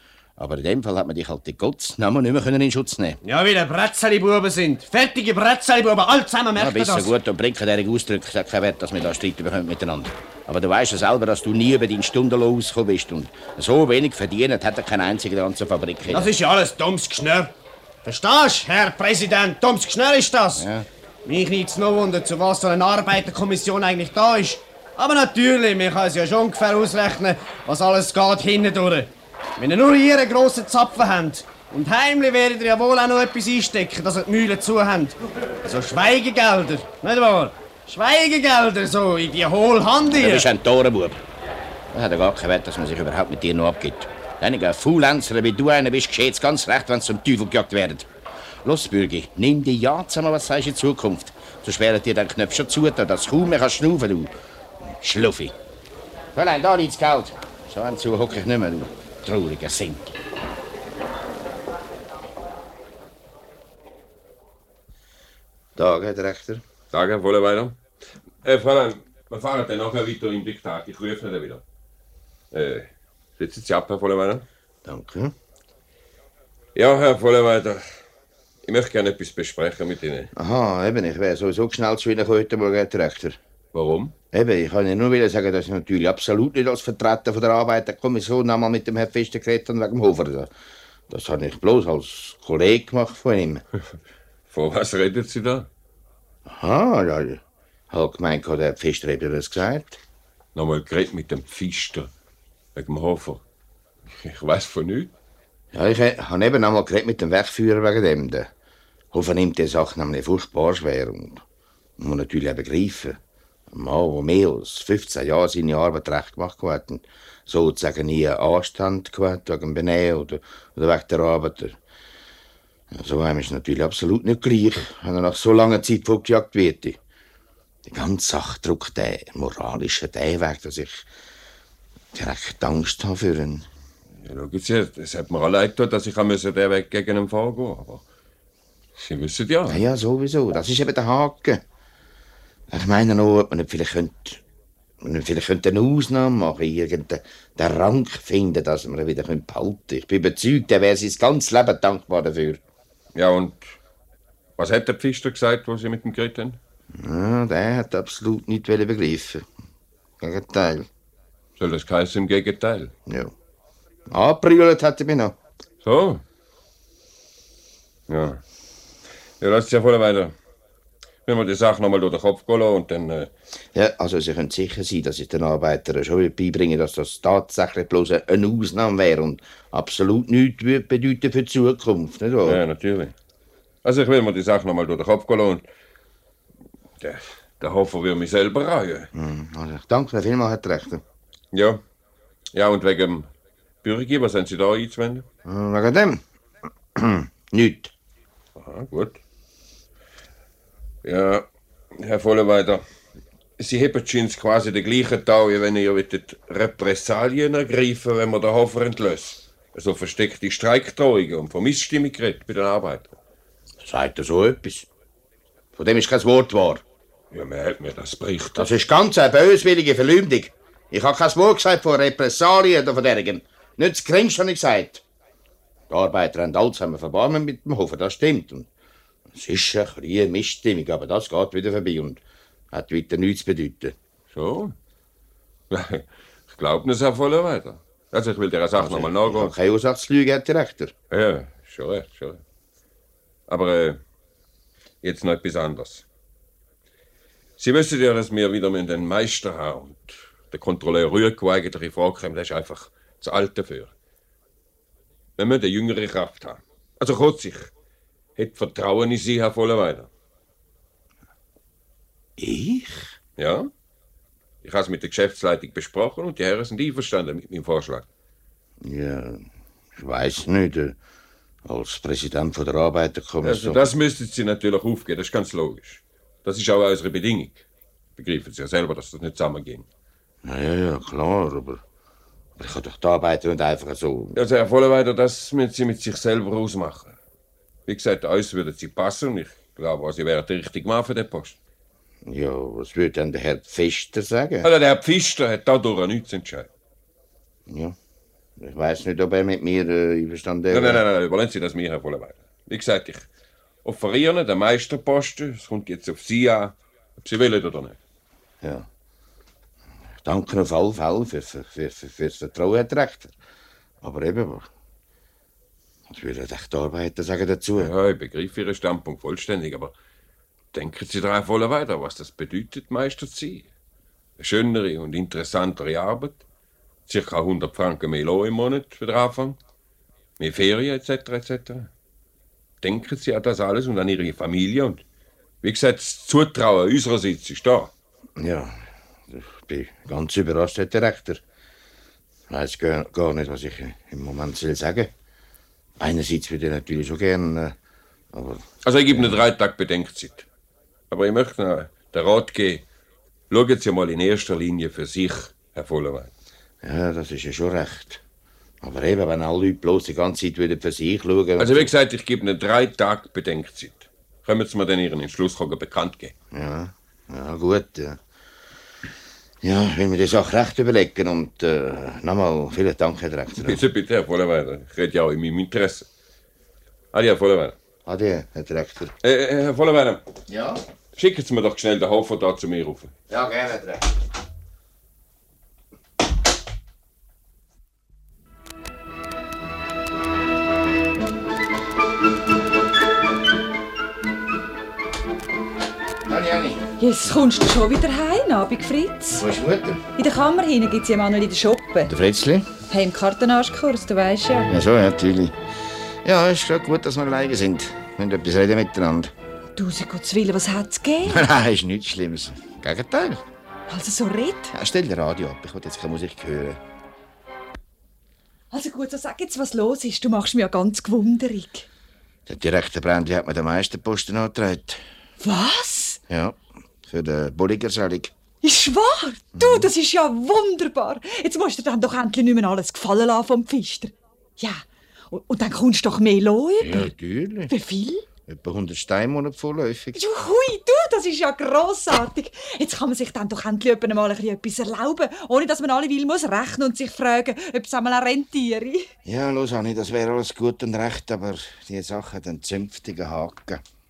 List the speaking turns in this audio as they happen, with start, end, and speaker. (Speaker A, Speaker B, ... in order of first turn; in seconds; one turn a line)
Speaker A: 0.4-3.2
Speaker B: 3.2-7.1
Speaker A: 6.5-16.3
Speaker B: 16.1-17.5
Speaker B: 18.0-20.6
Speaker A: 20.5-20.9
Speaker B: 21.2-40.5
Speaker A: 40.1-41.2
Speaker A: 41.9-48.1
Speaker A: 48.6-54.3
Speaker A: 54.9-55.5
Speaker A: 56.3-60.2
Speaker A: 65.8-66.6
Speaker C: 66.9-67.8
Speaker C: 68.4-71.6
Speaker C: 72.5-74.5
Speaker A: 74.8-75.3
Speaker C: 76.7-78.0
Speaker C: 78.6-80.3
Speaker A: 80.3-83.4
Speaker C: 83.7-84.1
Speaker A: 84.3-90.5
Speaker A: 91.1-93.6
Speaker C: 94.5-95.7
Speaker A: 96.5-100.0
Speaker C: 100.5-102.1
Speaker C: 102.7-103.4
Speaker C: 104.1-105.1
Speaker A: 105.7-108.5
Speaker A: 109.1-111.4
Speaker A: 112.0-113.2
Speaker A: 113.7-121.8
Speaker A: 122.9-127.0
Speaker A: 127.9-131.1
Speaker A: 132.1-133.7
Speaker C: 134.2-138.0
Speaker C: 139.0-139.8
Speaker A: 139.7-141.6
Speaker A: 142.7-144.4
Speaker A: 145.0-152.6
Speaker C: 153.1-153.6
Speaker C: 154.6-156.6
Speaker A: 156.9-159.5
Speaker A: 160.2-160.9
Speaker C: 161.6-162.9
Speaker A: 163.1-163.3
Speaker A: 164.1-165.4
Speaker C: 165.8-166.2
Speaker C: 168.1-168.4
Speaker C: 169.4-170.3
Speaker C: 171.3-173.3
Speaker A: 173.7-182.6
Speaker C: 182.4-183.1
Speaker C: 183.8-185.6
Speaker C: 187.0-189.1
Speaker A: 189.1-191.0
Speaker C: 191.5-191.8
Speaker C: 192.5-193.3
Speaker C: 193.8-195.3
Speaker A: 195.4-196.2
Speaker A: 196.9-197.9
Speaker C: 198.6-199.2
Speaker C: 201.0-201.4
Speaker C: 202.0-202.8
Speaker C: 203.6-213.1
Speaker A: 213.8-214.9
Speaker A: 215.8-216.8
Speaker C: 217.3-218.7
Speaker A: 218.6-225.0
Speaker A: 225.9-228.7
Speaker A: 229.3-232.2
Speaker A: 232.7-233.9
Speaker C: 234.3-234.7
Speaker C: 235.7-239.5
Speaker A: 238.8-240.9
Speaker C: 241.1-242.4
Speaker C: 243.5-244.0
Speaker C: 245.0-246.0
Speaker C: 247.6-253.9
Speaker C: 255.4-257.7
Speaker C: 258.4-260.1
Speaker A: 262.4-263.1
Speaker C: 263.4-263.7
Speaker C: 264.6-268.1
Speaker A: 268.8-271.0
Speaker A: 271.6-273.8
Speaker C: 273.4-277.6
Speaker C: 278.2-279.9
Speaker A: 280.4-281.8
Speaker A: 282.6-284.4
Speaker C: 284.3-287.1
Speaker C: 287.9-291.6
Speaker A: 292.2-294.7
Speaker C: 294.6-296.7
Speaker A: 297.7-297.9
Speaker A: 298.6-301.0
Speaker C: 300.7-303.3
Speaker C: 303.8-308.0
Speaker A: 308.6-308.9
Speaker A: 310.2-313.3
Speaker A: 314.0-314.7
Speaker A: 316.1-317.9
Speaker C: 317.8-319.9
Speaker C: 320.7-323.7
Speaker C: 324.4-326.4
Speaker C: 327.1-329.6
Speaker C: 330.4-331.9
Speaker C: 332.8-335.0
Speaker C: 335.6-337.9
Speaker A: 338.4-338.8
Speaker A: 339.3-341.4
Speaker A: 342.5-345.1
Speaker A: 346.0-347.8
Speaker A: 348.3-349.4
Speaker C: 348.8-350.4
Speaker C: 351.1-352.8
Speaker C: 353.5-356.3
Speaker A: 356.8-358.2
Speaker A: 358.8-361.9
Speaker C: 361.6-366.3
Speaker A: 366.5-368.2
Speaker A: 369.6-373.8
Speaker C: 373.6-376.1
Speaker C: 377.1-377.7
Speaker A: 378.1-379.1
Speaker C: 379.2-380.2
Speaker A: 380.5-380.8
Speaker C: 381.2-383.1
Speaker A: 383.3-384.1
Speaker A: 396.3-396.8
Speaker D: 397.0-399.4
Speaker A: 399.4-400.0
Speaker D: 400.1-402.1
Speaker A: 402.1-402.7
Speaker D: 402.9-404.7
Speaker A: 404.7-405.6
Speaker A: 406.2-409.3
Speaker D: 409.8-411.5
Speaker A: 411.3-413.4
Speaker D: 413.9-414.7
Speaker A: 414.7-416.8
Speaker D: 418.7-421.9
Speaker A: 422.4-425.0
Speaker D: 425.4-426.2
Speaker A: 426.3-428.3
Speaker D: 428.6-437.1
Speaker A: 429.6-429.9
Speaker A: 436.8-437.7
Speaker D: 437.7-438.2
Speaker A: 438.5-440.2
Speaker D: 440.1-449.1
Speaker A: 449.2-453.8